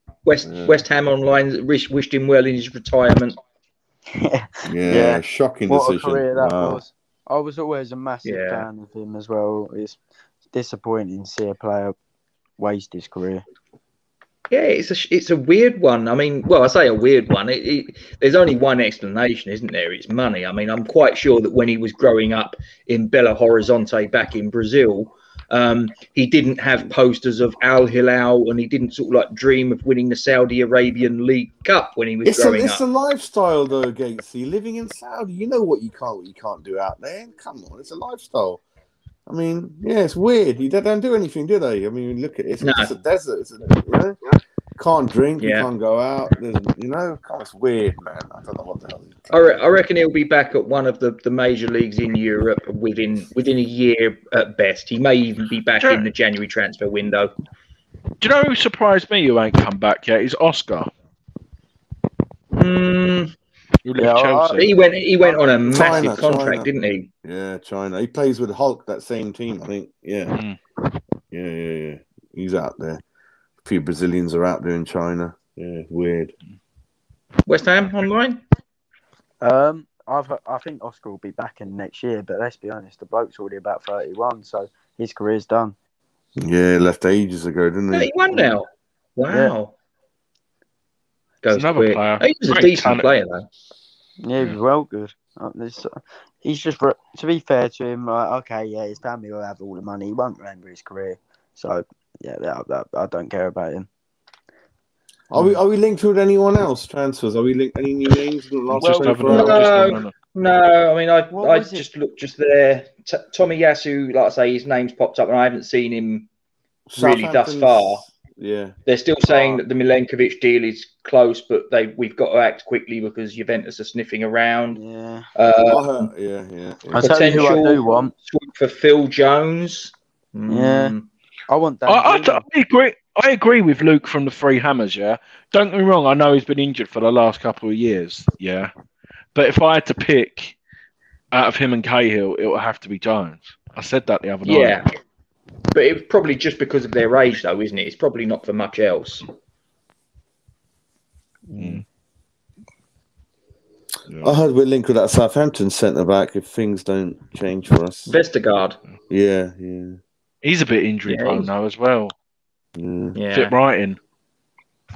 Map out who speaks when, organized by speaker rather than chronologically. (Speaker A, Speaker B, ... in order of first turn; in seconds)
Speaker A: 0.2-3.4, 8.2-8.7, 14.5-32.8, 42.6-42.9, 45.4-45.7, 49.3-57.3, 62.5-63.3, 64.5-67.1, 77.5-78.4, 87.9-89.7, 91.4-93.5, 109.3-116.3, 117.0-118.0, 118.9-124.8, 125.3-126.1, 126.9-131.1, 144.4-144.8, 145.7-149.2, 158.1-158.8, 161.1-161.5, 163.1-163.5
Speaker B: 0.4-0.8, 4.7-6.8, 32.2-38.6, 39.3-44.2, 44.8-49.6, 65.6-66.7, 67.2-70.4, 71.3-73.0, 73.6-76.3, 86.4-88.5, 105.3-109.9, 116.9-118.7, 119.3-119.6, 125.6-127.5, 151.5-151.8, 154.2-158.1, 159.1-160.0, 162.8-163.2
Speaker C: 4.1-11.9, 12.6-13.4, 64.0-64.7, 79.4-85.8, 89.3-89.5, 94.2-103.9, 111.3-111.9, 124.7-125.3, 126.9-128.1, 130.5-130.9, 131.5-132.4
Speaker D: 55.8-56.0, 58.2-60.9, 63.8-64.7, 65.7-66.2, 70.3-70.6, 91.5-93.1, 108.7-110.1, 131.8-138.7, 139.3-140.6, 141.3-144.8, 151.6-151.8, 154.1-154.3, 160.4-162.1, 163.3-164.0